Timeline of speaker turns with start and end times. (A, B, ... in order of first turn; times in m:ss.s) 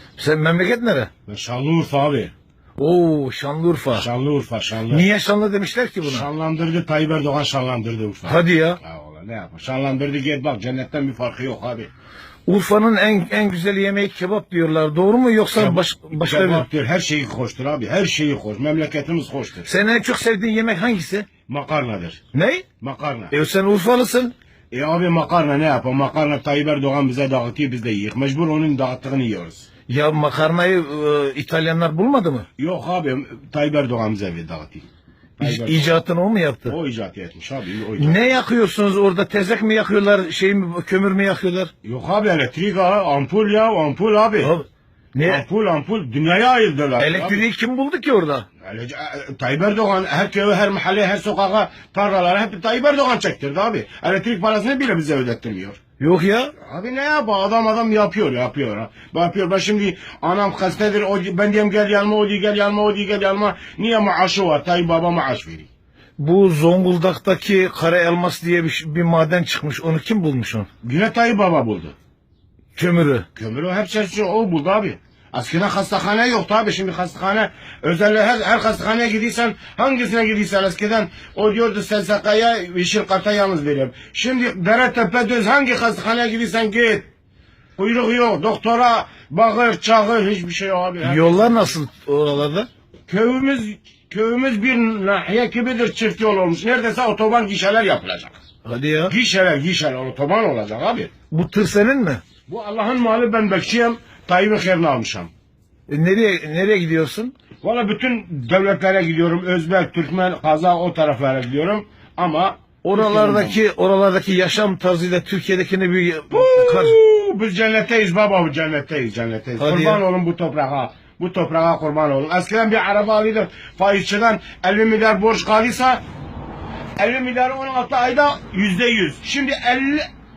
0:00.2-0:01.1 A
0:01.3-0:02.3 B
0:02.8-0:04.1 A
0:03.9-0:05.0 B
0:04.9-0:06.3 A
0:06.0-0:11.9 B
0:08.3-0:08.8 A
0:12.5-0:16.7 A
0:15.6-0:19.7 B
0:19.7-0:21.3 A
0:21.5-0:22.2 B
0:22.3-0:22.6 A
0:22.8-0:23.3 B
0:23.3-0:24.3 A
0:24.7-0:29.7 B
0:29.9-0:32.5 A
0:32.6-0:34.9 B
0:35.4-0:35.9 B
0:35.4-0:36.8 A
0:36.7-0:38.2 B
0:38.0-0:41.7 A
0:41.8-0:44.5 B
0:44.4-0:45.4 A
0:45.2-0:47.4 B
0:47.0-0:48.5 A
0:48.6-0:55.8 B
0:56.0-0:56.5 A
0:56.6-1:05.7 B
1:06.2-1:10.7 A
1:10.8-1:12.0 B
1:12.8-1:13.3 A
1:13.4-1:27.1 B
1:27.8-1:31.8 B
1:31.0-1:32.7 A
1:33.1-1:38.4 B
1:38.6-1:39.1 A
1:39.1-1:41.1 B
1:41.3-1:42.2 A
1:42.5-1:45.3 B
1:45.9-1:47.3 A
1:47.6-1:53.6 B
1:52.8-1:57.0 A
1:56.3-2:06.0 B
1:59.6-2:00.0 A
2:07.0-2:10.1 B